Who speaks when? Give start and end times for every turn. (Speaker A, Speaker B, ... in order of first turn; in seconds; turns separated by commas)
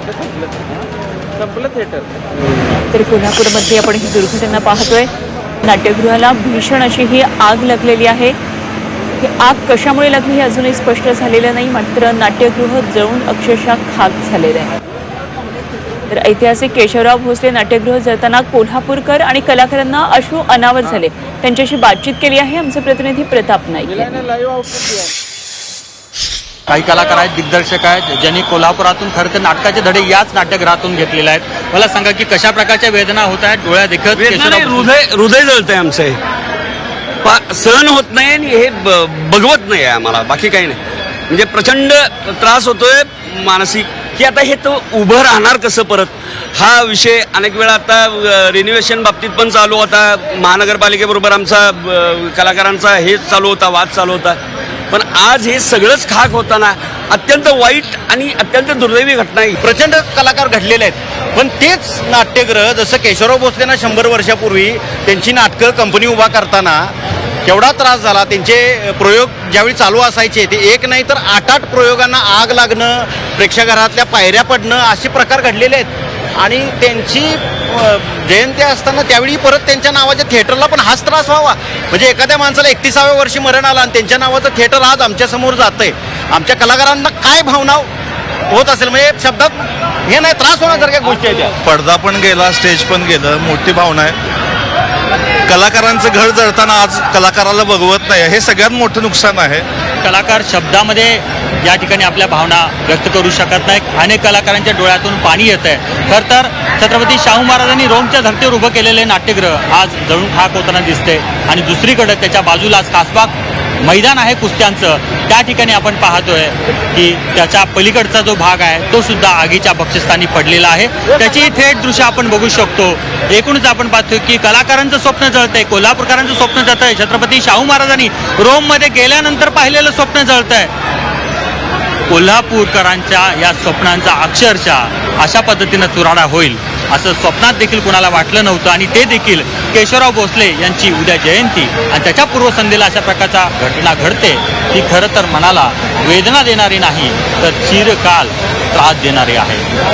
Speaker A: 2.9-5.1, Speaker A: 5.6-8.3, Speaker A: 9.2-14.7, Speaker A: 16.1-24.3, Speaker B: 26.7-34.9, Speaker C: 34.1-36.2, Speaker C: 37.2-54.4, Speaker C: 54.9-59.6, Speaker D: 59.6-66.9, Speaker D: 67.4-87.9, Speaker D: 88.5-91.5, Speaker E: 91.6-94.2, Speaker E: 95.5-99.7, Speaker B: 100.0-130.7, Speaker B: 132.1-149.7